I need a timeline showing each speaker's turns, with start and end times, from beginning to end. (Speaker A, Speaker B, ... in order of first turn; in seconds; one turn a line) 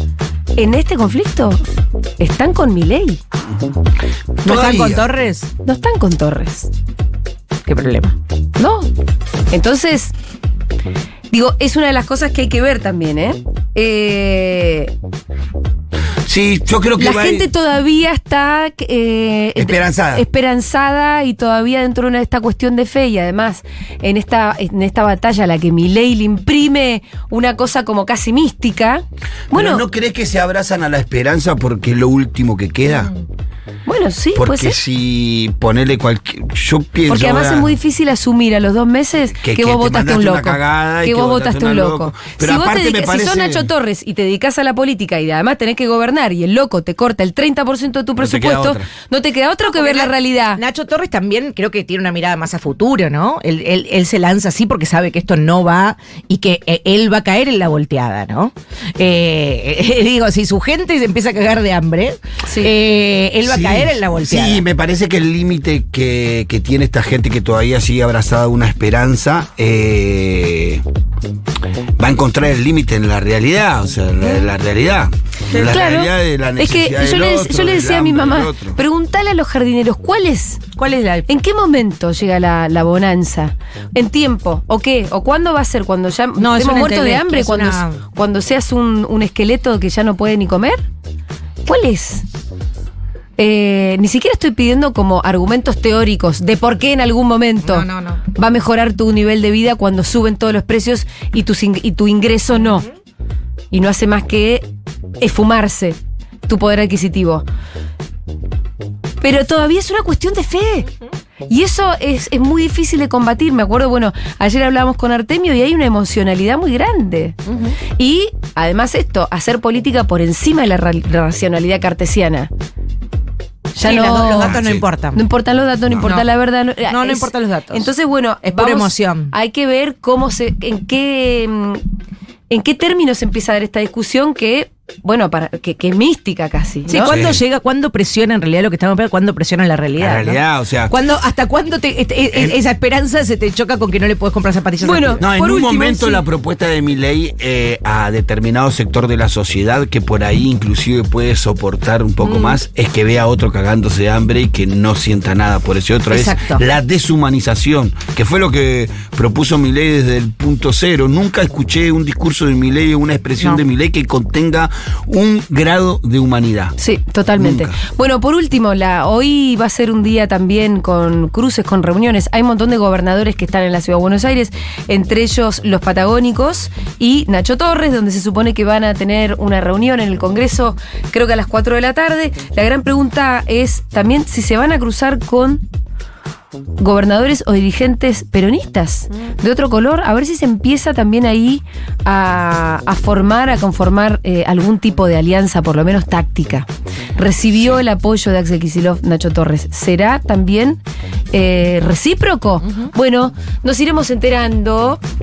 Speaker A: 0.6-1.6
Speaker A: 2.2-3.2
Speaker B: 4.4-5.5
Speaker C: 4.4-5.0
Speaker A: 5.6-6.7
Speaker B: 7.7-8.1
Speaker A: 8.6-8.9
Speaker A: 9.5-10.1
Speaker A: 11.3-14.9
Speaker C: 16.2-17.5
Speaker A: 17.0-29.8
Speaker C: 19.6-20.2
Speaker C: 29.5-33.1
Speaker A: 33.9-34.8
Speaker C: 34.3-37.8
Speaker A: 37.1-50.6
Speaker C: 39.4-43.7
Speaker C: 48.2-48.9
Speaker B: 49.7-64.6
Speaker C: 63.4-70.8
Speaker C: 72.0-78.8
Speaker A: 75.5-80.6
Speaker B: 80.8-81.3
Speaker A: 81.3-90.8
Speaker B: 86.4-88.0
Speaker A: 91.6-92.2
Speaker A: 93.4-102.8
Speaker B: 97.6-98.2
Speaker A: 103.7-104.6
Speaker A: 105.2-107.4
Speaker A: 109.2-110.9
Speaker A: 111.5-117.3
Speaker B: 117.5-117.8
Speaker A: 118.0-122.5
Speaker A: 123.8-124.6
Speaker B: 123.8-125.2
Speaker C: 124.5-124.8
Speaker A: 125.1-131.8
Speaker B: 126.0-126.3
Speaker B: 126.9-127.9
Speaker B: 128.4-129.3
Speaker A: 132.5-137.1
Speaker B: 136.9-145.2
Speaker C: 137.0-137.4
Speaker C: 140.0-141.0
Speaker C: 142.3-142.6
Speaker A: 144.8-146.2
Speaker C: 145.2-166.8
Speaker B: 152.2-152.6
Speaker B: 156.1-156.6
Speaker A: 166.8-185.6
Speaker C: 167.3-167.8
Speaker A: 186.8-205.0